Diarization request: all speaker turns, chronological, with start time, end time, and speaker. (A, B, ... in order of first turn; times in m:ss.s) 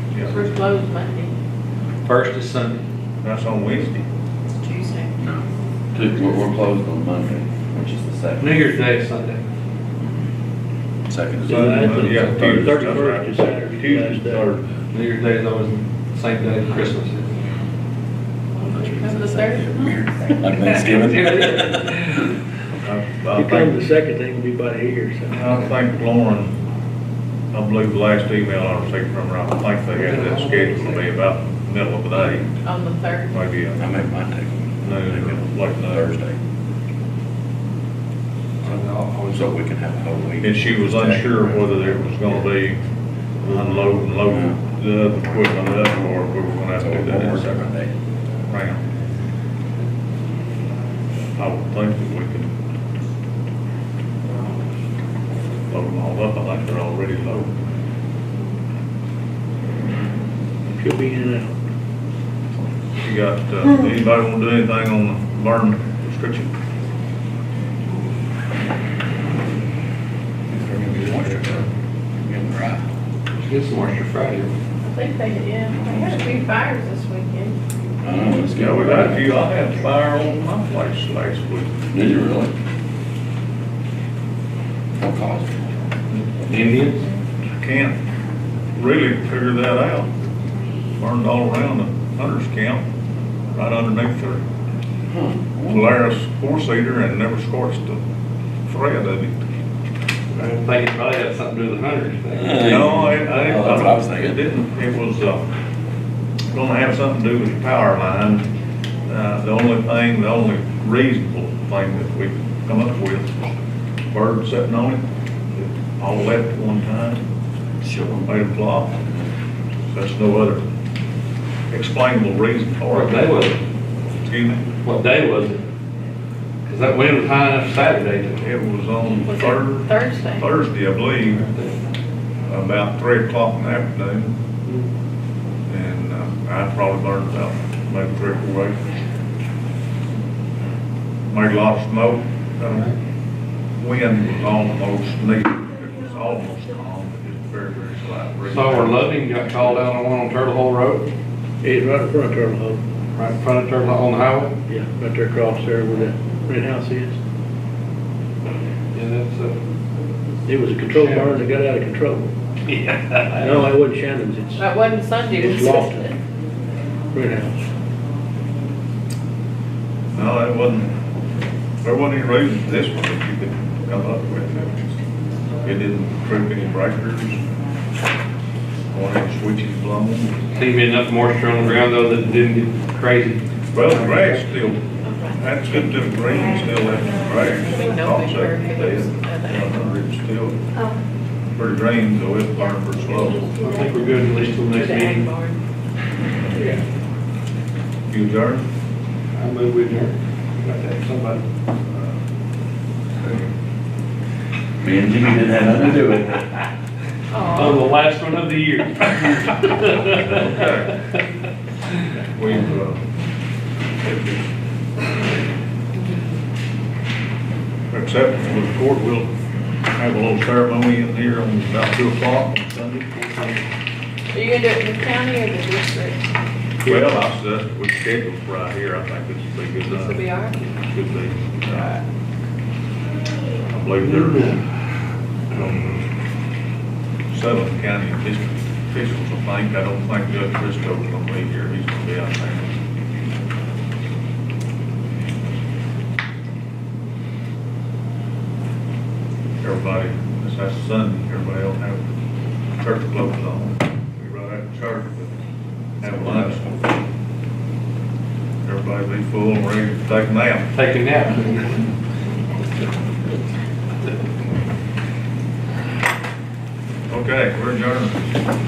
0:00.1-0:00.4 A
0:00.2-0:01.3 B
0:02.0-0:02.8 C
0:03.2-0:04.0 A
0:04.6-0:05.1 B
0:05.2-0:08.7 D
0:08.4-0:09.4 C
0:11.0-0:12.8 D
0:11.4-0:14.5 E
0:11.5-0:14.7 A
0:14.9-0:17.4 C
0:18.5-0:20.0 B
0:18.7-0:21.9 D
0:21.0-0:22.2 C
0:22.8-0:23.8 A
0:23.3-0:25.5 E
0:25.3-0:26.6 A
0:27.5-0:32.5 A
0:29.9-0:31.1 C
0:32.6-0:33.3 B
0:33.3-0:33.9 A
0:33.8-0:36.4 D
0:34.8-0:36.1 A
0:38.6-0:39.5 C
0:39.3-0:42.5 D
0:40.4-0:42.8 A
0:43.4-0:47.6 A
0:44.3-0:44.6 D
0:45.2-0:46.1 D
0:46.7-0:47.9 D
0:48.5-0:48.8 A
0:51.4-0:52.5 A
0:55.7-0:57.5 A
1:00.7-1:01.6 E
1:03.0-1:06.5 A
1:10.5-1:12.8 D
1:13.4-1:14.5 C
1:14.8-1:17.6 B
1:15.7-1:16.3 D
1:18.0-1:19.2 D
1:18.5-1:21.7 A
1:21.9-1:22.5 D
1:25.0-1:25.5 D
1:26.4-1:27.0 C
1:27.6-1:28.0 A
1:28.7-1:30.1 A
1:31.0-1:32.8 A
1:33.5-1:34.4 A
1:35.1-1:35.9 D
1:35.7-1:38.0 A
1:38.6-1:39.4 A
1:40.3-1:42.8 C
1:42.3-1:44.4 D
1:42.6-1:45.4 A
1:46.5-1:48.5 A
1:49.1-1:53.5 A
1:54.1-1:57.2 A
1:57.8-1:59.3 D
1:58.2-1:58.9 A
1:59.9-2:00.6 A
2:01.7-2:03.3 A
2:02.9-2:03.6 C
2:04.2-2:04.6 A
2:04.8-2:05.6 C
2:06.6-2:08.4 C
2:08.4-2:11.4 A
2:09.0-2:10.5 B
2:11.2-2:11.7 C
2:12.4-2:14.4 A
2:15.7-2:18.8 A
2:21.3-2:22.9 A
2:22.7-2:22.9 C
2:23.8-2:29.1 A
2:28.4-2:31.1 C
2:31.6-2:32.8 E
2:33.1-2:34.6 C
2:34.7-2:37.2 E
2:38.9-2:39.6 C
2:40.5-2:42.3 E
2:40.9-2:41.4 C
2:42.7-2:43.7 C
2:43.4-2:44.6 E
2:44.6-2:46.2 B
2:45.3-2:46.1 E
2:47.1-2:47.6 E
2:50.1-2:50.9 A
2:51.8-2:54.8 A
2:55.6-2:57.4 A
2:58.9-3:00.4 A
3:00.5-3:04.6 C
3:03.7-3:04.8 A
3:05.0-3:05.6 B
3:05.4-3:10.6 A
3:07.6-3:09.9 B
3:11.5-3:13.6 A
3:13.5-3:15.2 C
3:14.7-3:15.6 B
3:18.1-3:18.7 A
3:19.3-3:21.4 C
3:21.9-3:22.2 A
3:24.8-3:26.6 D
3:27.3-3:27.9 B
3:27.5-3:31.2 C
3:30.2-3:30.9 A
3:32.3-3:33.0 A
3:35.9-3:36.2 B
3:37.9-3:39.3 A
3:40.0-3:43.2 A
3:43.2-3:43.6 C
3:44.3-3:46.2 B
3:46.8-3:47.2 C
3:46.8-3:50.2 A
3:49.8-3:50.6 B
3:50.7-3:51.9 A
3:51.6-3:52.0 B
3:53.7-3:54.5 A
3:54.0-3:54.6 C
3:55.5-3:56.0 A
3:57.3-4:02.7 A
4:09.6-4:12.0 A
4:12.8-4:15.3 A
4:16.0-4:16.6 A
4:16.0-4:16.9 D
4:18.6-4:20.7 A
4:20.7-4:21.8 C
4:27.1-4:28.3 A